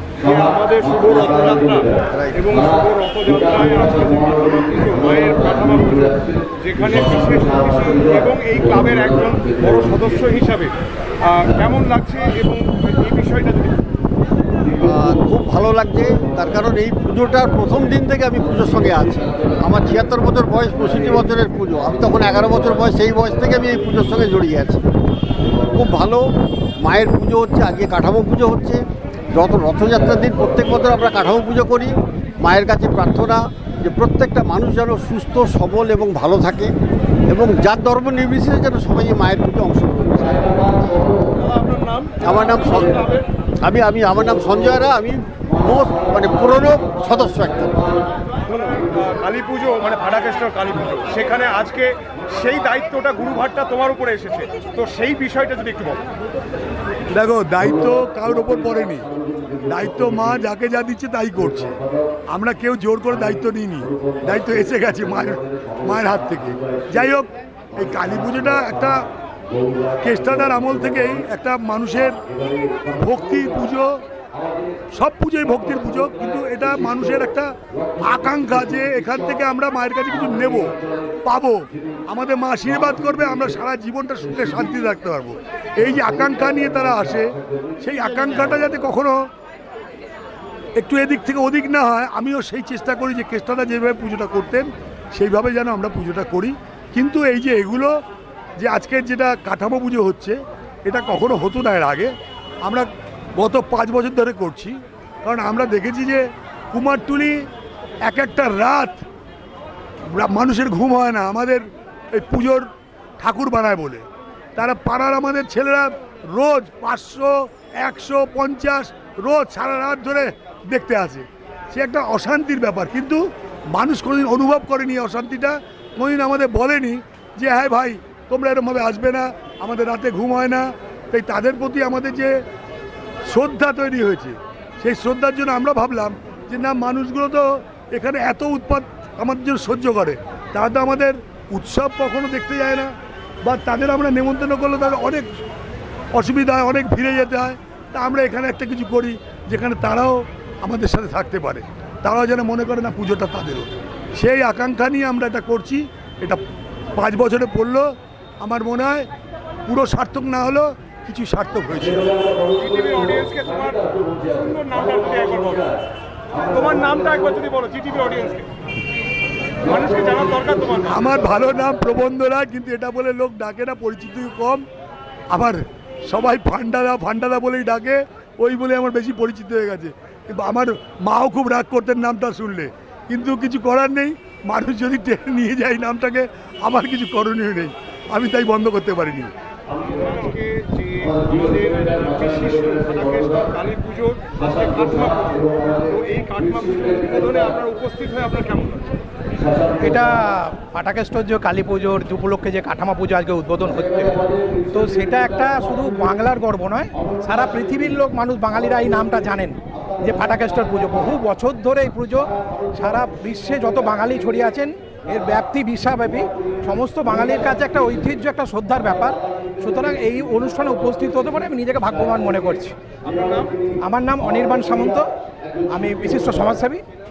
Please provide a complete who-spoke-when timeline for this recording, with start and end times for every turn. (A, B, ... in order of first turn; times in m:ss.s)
0:00.2-0:13.9 A
0:02.1-0:02.5 B
0:14.8-0:24.8 B
0:25.7-0:26.2 B
0:26.8-0:28.8 B
0:29.3-0:36.7 B
0:37.3-0:40.8 B
0:41.3-0:43.3 A
0:42.2-0:43.0 B
0:43.6-0:47.9 B
0:48.4-0:56.1 A
0:57.1-0:59.1 C
0:59.6-1:09.0 C
1:10.0-1:12.2 C
1:12.9-1:14.0 C
1:14.9-1:29.2 C
1:30.8-1:37.9 C
1:38.6-1:42.1 C
1:42.6-1:47.4 C
1:48.0-1:49.0 C
1:50.1-1:52.7 C
1:53.2-1:54.0 C
1:54.6-2:03.2 C
2:03.7-2:12.3 C
2:13.3-2:22.9 C
2:23.4-2:25.3 C
2:26.1-2:36.4 C
2:37.0-2:37.9 C
2:38.4-2:39.1 C
2:39.7-2:42.1 C
2:42.5-2:45.7 A
2:46.4-2:48.5 A
2:49.6-2:51.0 A
2:50.9-2:54.6 C
2:55.3-3:09.3 C
3:09.8-3:18.9 A
3:19.8-3:42.8 D
3:43.0-3:43.6 A
3:43.8-3:45.1 D
3:45.6-3:46.8 D